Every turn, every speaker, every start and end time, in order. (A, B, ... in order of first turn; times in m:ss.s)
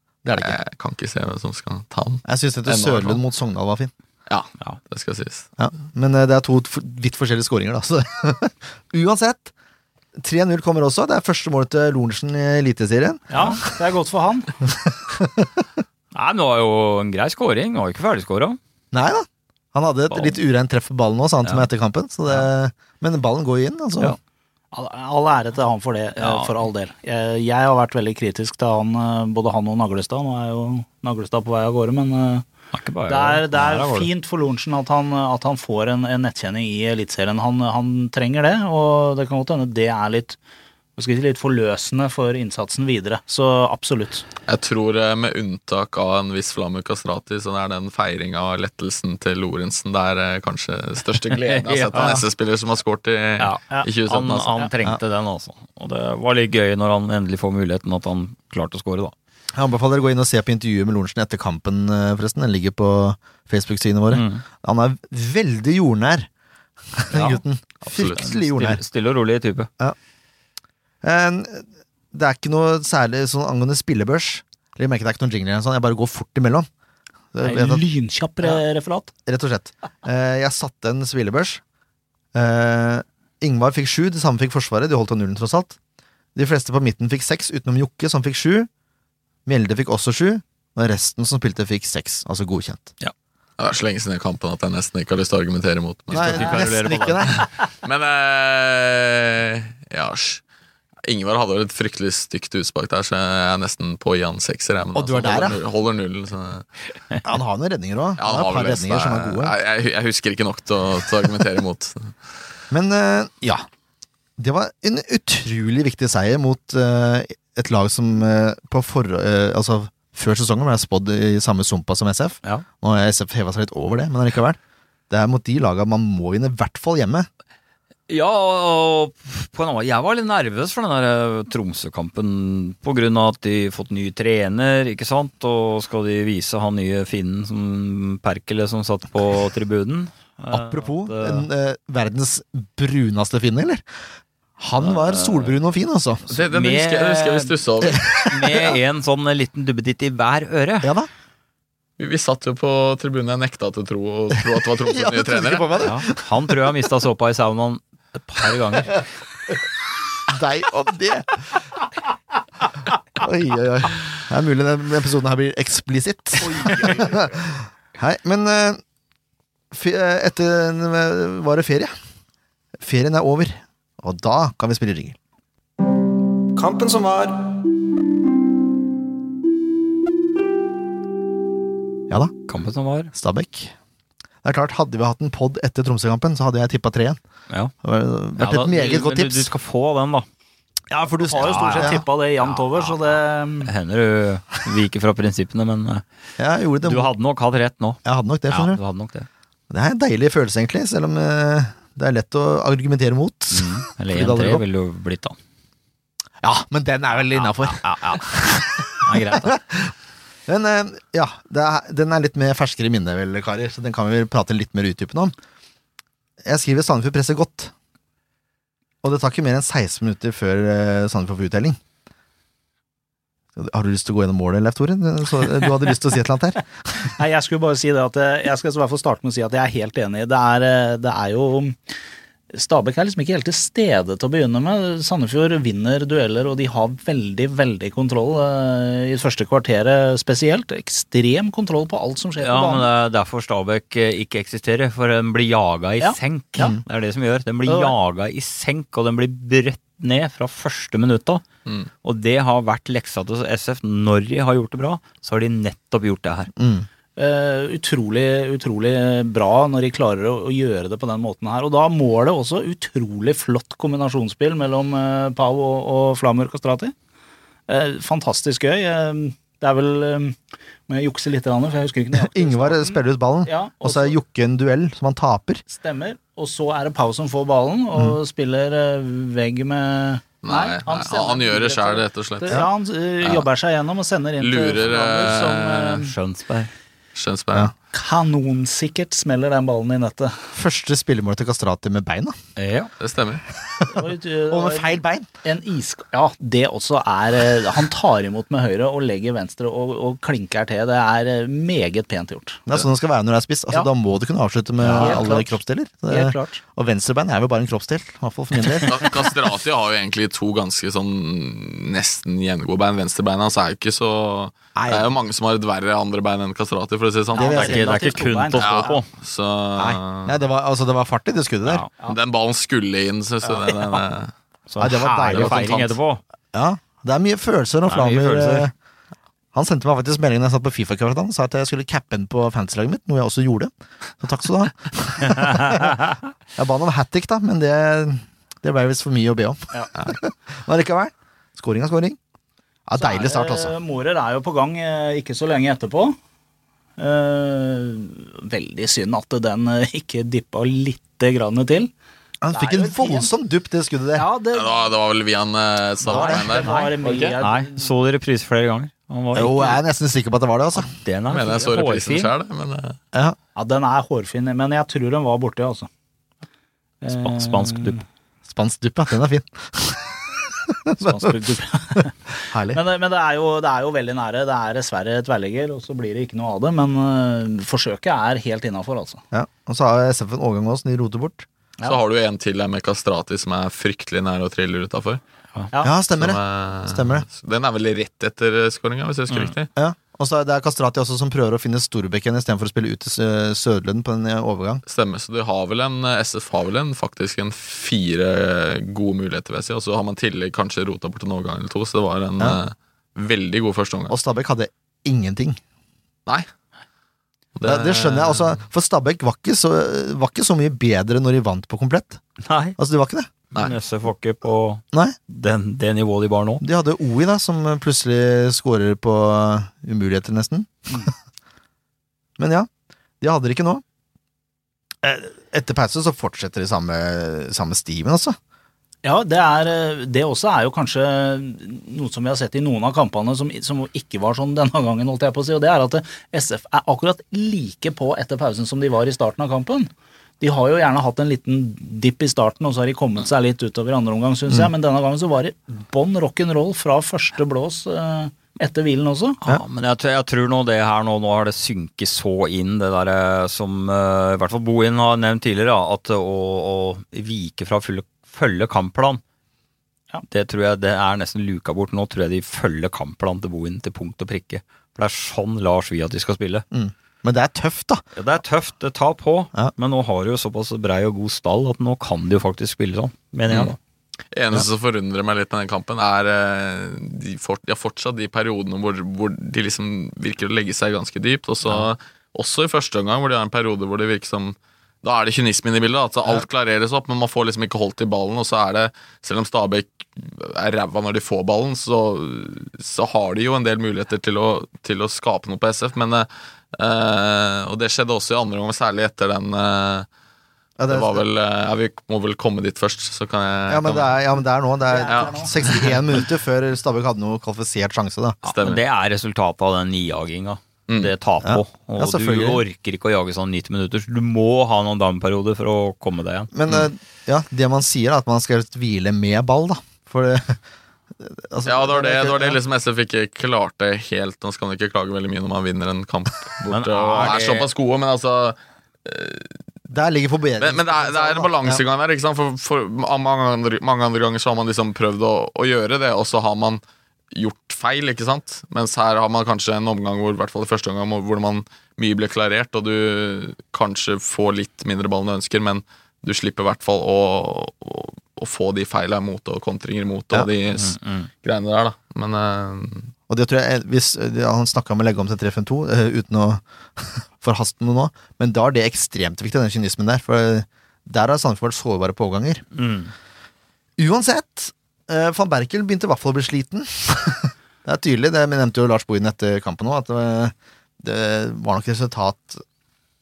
0:00.2-0:00.6 A
0:00.4-0:03.2 B
0:02.3-0:03.9 A
0:04.3-0:05.5 B
0:05.6-0:09.5 A
0:10.2-0:13.7 A
0:13.3-0:14.6 C
0:13.3-0:13.6 D
0:15.1-0:15.6 A
0:16.1-0:18.6 D
0:18.9-0:24.2 A
0:20.1-0:20.4 D
0:24.7-0:32.5 C
0:26.2-0:26.5 D
0:32.7-0:34.1 D
0:33.1-0:40.4 C
0:41.0-0:44.2 C
0:44.5-0:54.6 B
0:51.4-0:52.2 D
0:53.4-0:59.1 D
0:59.5-1:06.3 A
1:04.1-1:04.4 D
1:06.9-1:08.8 A
1:07.1-1:09.7 D
1:07.9-1:08.2 B
1:11.0-1:16.7 A
1:17.3-1:17.8 A
1:17.4-1:19.1 C
1:19.3-1:21.6 A
1:22.3-1:25.8 A
1:26.4-1:28.7 A
1:29.5-1:32.9 A
1:33.6-1:36.6 B
1:36.1-1:37.5 A
1:36.1-1:37.4 D
1:37.8-1:40.4 B
1:41.0-1:46.7 B
1:45.0-1:45.6 A
1:47.2-1:49.5 A
1:48.2-1:52.1 B
1:52.7-1:53.6 A
1:54.4-2:04.6 A
2:05.1-2:07.3 A
2:08.1-2:21.5 D
2:20.5-2:23.8 A
2:24.6-2:26.3 A
2:24.8-2:25.6 D
2:26.3-2:28.3 B
2:26.3-2:27.6 D
2:27.9-2:28.4 A
2:28.3-2:30.9 D
2:30.8-2:31.1 A
2:32.0-2:35.7 B
2:34.8-2:36.5 A
2:35.8-2:39.0 D
2:40.3-2:41.5 A
2:43.2-2:48.8 A
2:46.6-2:47.2 C
2:49.7-2:51.9 A
2:52.8-2:55.2 A
2:56.5-2:57.4 A
3:02.5-3:03.1 D
3:03.1-3:03.7 A
3:04.4-3:07.2 A
3:07.8-3:09.5 A
3:08.4-3:10.3 D
3:10.9-3:12.0 A
3:11.2-3:13.7 C
3:11.3-3:16.0 D
3:16.4-3:17.1 A
3:16.8-3:19.3 D
3:18.0-3:18.8 A
3:19.7-3:24.6 A
3:23.5-3:25.4 D
3:26.4-3:29.9 A
3:27.4-3:29.6 D
3:30.5-3:35.3 A
3:36.4-3:37.7 A
3:39.0-3:41.8 A
3:43.6-3:46.6 A
3:47.1-3:51.8 C
3:52.5-4:02.9 C
4:02.4-4:11.4 D
4:06.0-4:06.8 C
4:07.7-4:08.0 C
4:12.0-4:16.5 D
4:16.6-4:16.9 A
4:17.2-4:26.9 C
4:27.7-4:34.2 C
4:32.1-4:35.6 A
4:35.7-4:46.1 C
4:40.4-4:42.7 B
4:44.4-4:46.0 B
4:46.0-4:46.7 D
4:47.2-4:47.7 B
4:47.9-4:50.4 C
4:50.5-4:52.4 A
4:52.6-4:52.9 D
4:53.0-4:53.4 B
4:53.6-4:55.3 A
4:53.9-5:02.6 C
5:02.7-5:09.3 A
5:04.8-5:05.2 D
5:04.9-5:05.6 C
5:06.1-5:06.6 C
5:08.8-5:17.7 B
5:14.8-5:15.1 A
5:17.3-5:19.0 C
5:17.4-5:17.9 A
5:17.4-5:19.1 D
5:18.6-5:20.4 B
5:19.8-5:21.8 A
5:21.6-5:21.9 D
5:22.0-5:24.3 B
5:23.5-5:24.0 C
5:24.7-5:26.2 D
5:24.8-5:25.8 A
5:25.3-5:26.0 B
5:26.5-5:28.7 A
5:27.9-5:28.7 D
5:29.5-5:42.2 A
5:42.9-5:43.8 A
5:43.0-5:46.2 C
5:47.0-5:51.9 C
5:52.4-5:54.3 A
5:52.5-5:53.3 C
5:54.2-5:54.9 C
5:54.5-5:57.4 B
5:56.1-5:57.9 C
5:56.1-5:56.5 A
5:56.6-5:59.8 D
5:59.3-6:00.9 A
6:00.9-6:02.3 D
6:01.3-6:03.0 B
6:03.6-6:05.9 C
6:07.0-6:08.0 C
6:07.1-6:08.0 D
6:08.5-6:11.4 A
6:11.0-6:12.1 C
6:12.0-6:12.8 A
6:12.7-6:19.2 C
6:19.3-6:21.5 A
6:21.8-6:25.2 B
6:25.8-6:27.3 A
6:26.2-6:29.7 B
6:29.3-6:29.5 D
6:29.8-6:34.8 A
6:34.9-6:44.2 B
6:44.1-6:45.6 A
6:47.6-6:48.6 B
6:47.6-6:52.2 A
6:52.4-6:52.8 D
6:52.8-6:53.3 A
6:53.6-6:56.6 D
6:56.6-7:01.1 A
7:02.4-7:02.7 A
7:03.2-7:03.8 A
7:05.0-7:08.4 A
7:09.0-7:29.4 C
7:29.4-7:39.2 D
7:40.3-7:46.6 D
7:46.7-7:48.0 A
7:48.2-7:53.8 D
7:54.3-8:20.1 B
8:20.8-8:21.2 A
8:20.9-8:24.2 B
8:23.7-8:28.4 A
8:24.9-8:25.8 C
8:25.1-8:26.2 B
8:28.4-8:28.8 B
8:28.4-8:36.5 D
8:30.9-8:31.1 B
8:31.4-8:32.6 A
8:36.5-8:40.6 A
8:41.2-8:42.6 A
8:41.7-8:49.6 B
8:46.7-8:47.7 D
8:49.9-8:51.8 A
8:50.6-8:56.8 B
8:57.3-9:13.1 B
9:10.8-9:11.3 D
9:13.3-9:22.6 A
9:22.7-9:23.1 D
9:24.0-9:32.6 A